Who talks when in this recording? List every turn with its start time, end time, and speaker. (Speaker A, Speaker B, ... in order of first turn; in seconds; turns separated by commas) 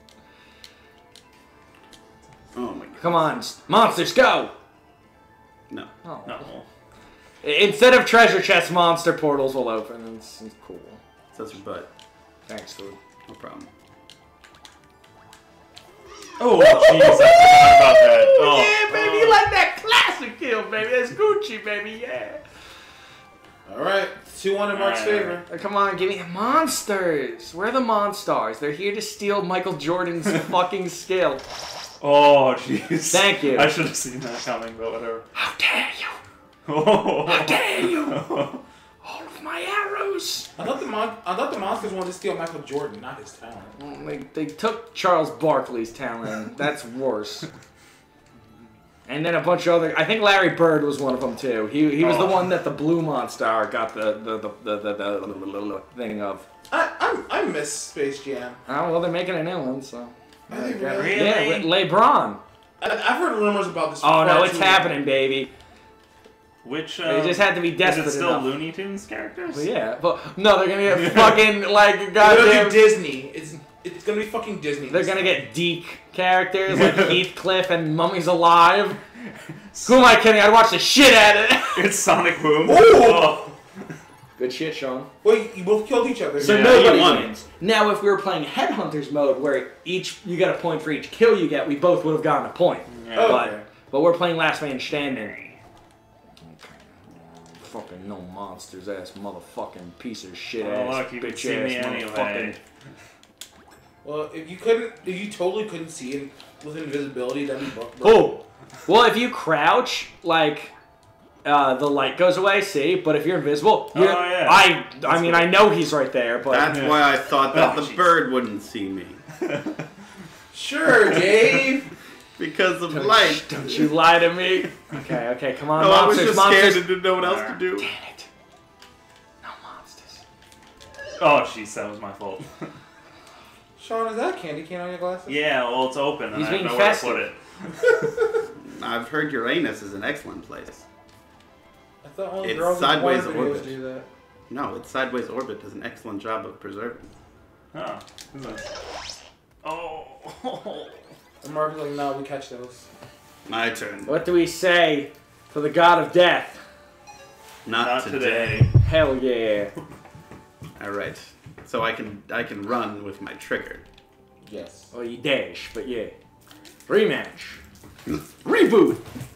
Speaker A: 2.5-3.2, Speaker B: 3.0-4.5, Speaker B: 6.0-6.4, Speaker C: 6.2-6.7, Speaker B: 7.4-11.0, Speaker A: 11.3-11.9, Speaker B: 12.5-13.0, Speaker A: 13.3-13.7, Speaker C: 16.4-19.4, Speaker B: 16.5-22.4, Speaker D: 23.6-25.4, Speaker C: 24.7-25.4, Speaker B: 25.5-31.4, Speaker C: 32.0-35.2, Speaker B: 33.1-33.7, Speaker B: 35.3-36.2, Speaker C: 36.6-38.6, Speaker B: 37.2-38.2, Speaker B: 39.0-40.5, Speaker D: 40.5-43.8, Speaker B: 43.8-47.5, Speaker B: 49.1-56.5, Speaker C: 52.0-52.5, Speaker D: 56.7-58.6, Speaker B: 58.7-62.4, Speaker D: 60.5-61.3, Speaker C: 60.9-61.7, Speaker D: 62.8-64.9, Speaker B: 64.0-65.5, Speaker C: 66.6-69.6, Speaker B: 67.0-68.5, Speaker B: 69.5-72.8, Speaker C: 70.9-71.4, Speaker D: 72.2-75.4, Speaker B: 74.9-79.0, Speaker C: 76.7-77.2, Speaker C: 79.7-80.0, Speaker B: 79.8-81.9, Speaker C: 81.7-83.9, Speaker D: 82.6-83.4, Speaker B: 84.4-85.1, Speaker D: 85.2-87.0, Speaker B: 86.4-95.3, Speaker A: 86.4-87.3, Speaker C: 92.9-93.5, Speaker D: 93.1-93.7, Speaker C: 95.0-95.6, Speaker B: 96.4-102.6, Speaker C: 100.6-102.6, Speaker D: 104.0-108.3, Speaker B: 108.0-110.7, Speaker B: 111.4-116.8, Speaker C: 113.9-114.8, Speaker A: 116.5-119.2, Speaker C: 116.7-118.0, Speaker C: 119.4-119.8, Speaker D: 120.5-121.9, Speaker C: 121.1-121.5, Speaker A: 122.4-124.0, Speaker B: 122.9-126.9, Speaker A: 125.8-127.9, Speaker C: 127.2-127.6, Speaker B: 127.8-128.3, Speaker B: 129.4-130.2, Speaker C: 131.2-132.7, Speaker D: 133.8-135.3, Speaker C: 135.3-138.0, Speaker B: 136.3-137.2, Speaker A: 138.6-140.8, Speaker D: 142.0-144.1, Speaker A: 142.4-143.7, Speaker A: 144.5-147.1, Speaker C: 147.7-148.7, Speaker C: 149.6-151.1, Speaker D: 151.4-152.9, Speaker A: 153.4-154.2, Speaker B: 154.1-156.6, Speaker A: 157.6-158.7, Speaker C: 157.8-158.7, Speaker B: 158.7-159.7, Speaker A: 160.8-163.8, Speaker D: 164.4-164.9, Speaker B: 164.9-166.1, Speaker B: 166.9-167.6, Speaker B: 168.4-169.0